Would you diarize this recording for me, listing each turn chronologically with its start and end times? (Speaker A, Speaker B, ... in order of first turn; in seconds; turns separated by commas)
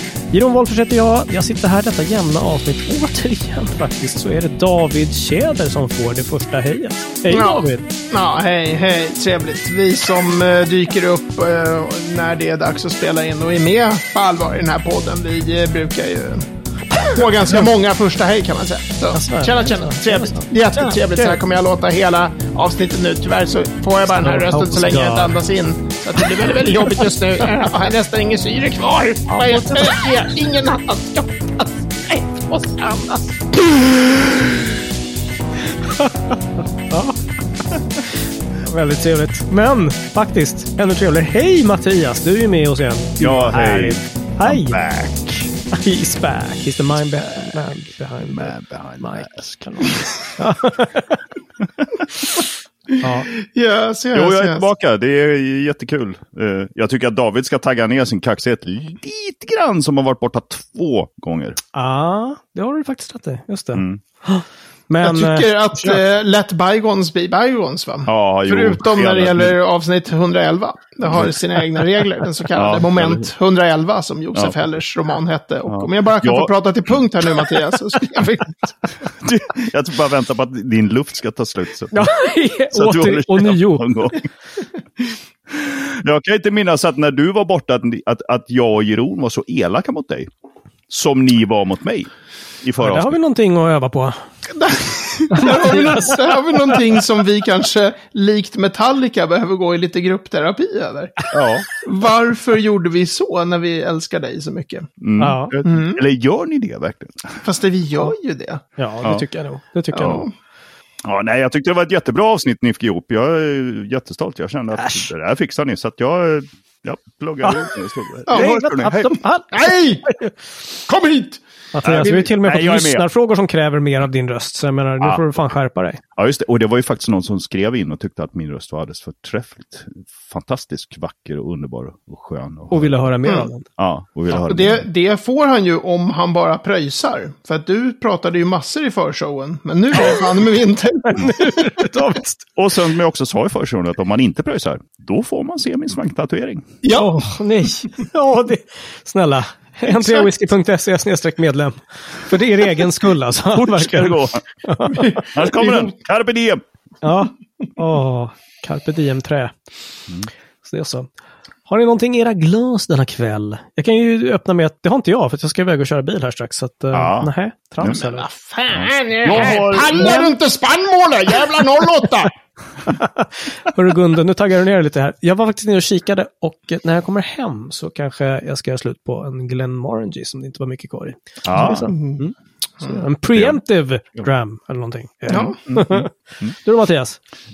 Speaker A: 0.3-7.8, Speaker B: 7.3-34.7, Speaker A: 19.1-21.4, Speaker A: 24.1-25.4, Speaker A: 26.2-27.1, Speaker A: 29.3-30.1, Speaker A: 35.8-36.4, Speaker A: 36.9-37.2, Speaker A: 38.6-44.8, Speaker C: 43.2-45.5, Speaker A: 45.7-51.2, Speaker C: 48.3-49.6, Speaker C: 51.6-52.0, Speaker B: 52.9-54.7, Speaker A: 53.0-53.3, Speaker C: 54.1-61.6, Speaker A: 61.7-66.0, Speaker C: 63.7-64.0, Speaker B: 65.0-78.9, Speaker C: 68.0-69.5, Speaker C: 71.1-71.4, Speaker C: 72.5-73.3, Speaker C: 75.7-77.5, Speaker C: 79.2-82.1, Speaker A: 81.9-84.2, Speaker C: 82.7-84.3, Speaker C: 85.5-90.3, Speaker C: 90.9-93.2, Speaker A: 92.8-94.2, Speaker B: 94.5-101.2, Speaker A: 95.3-96.8, Speaker C: 101.3-101.7, Speaker B: 101.7-104.9, Speaker C: 105.0-107.4, Speaker A: 105.2-105.5, Speaker B: 105.6-106.0, Speaker B: 107.4-108.6, Speaker A: 108.8-110.2, Speaker B: 109.9-110.3, Speaker C: 111.0-119.2, Speaker A: 114.8-115.1, Speaker A: 117.4-117.7, Speaker A: 118.3-120.3, Speaker B: 118.3-118.6, Speaker B: 119.5-120.1, Speaker B: 120.8-121.4, Speaker A: 121.7-126.0, Speaker C: 121.8-123.0, Speaker C: 126.2-132.9, Speaker A: 132.7-133.7, Speaker B: 133.2-133.5, Speaker C: 133.8-134.8, Speaker B: 134.3-141.9, Speaker A: 139.9-140.4, Speaker A: 141.0-142.5, Speaker C: 142.6-146.7, Speaker B: 146.8-147.3, Speaker A: 146.9-155.2, Speaker B: 149.9-150.3, Speaker C: 153.5-154.4, Speaker B: 154.9-155.9, Speaker C: 155.3-156.6, Speaker A: 157.0-159.5, Speaker A: 160.6-161.1, Speaker A: 161.7-168.3, Speaker C: 166.9-167.3, Speaker B: 167.8-172.3, Speaker C: 168.7-170.2, Speaker A: 169.3-170.3, Speaker A: 172.9-187.2, Speaker C: 181.4-181.9, Speaker B: 181.5-182.2, Speaker B: 182.8-183.0, Speaker C: 183.3-183.6, Speaker B: 185.3-185.6, Speaker C: 185.3-186.5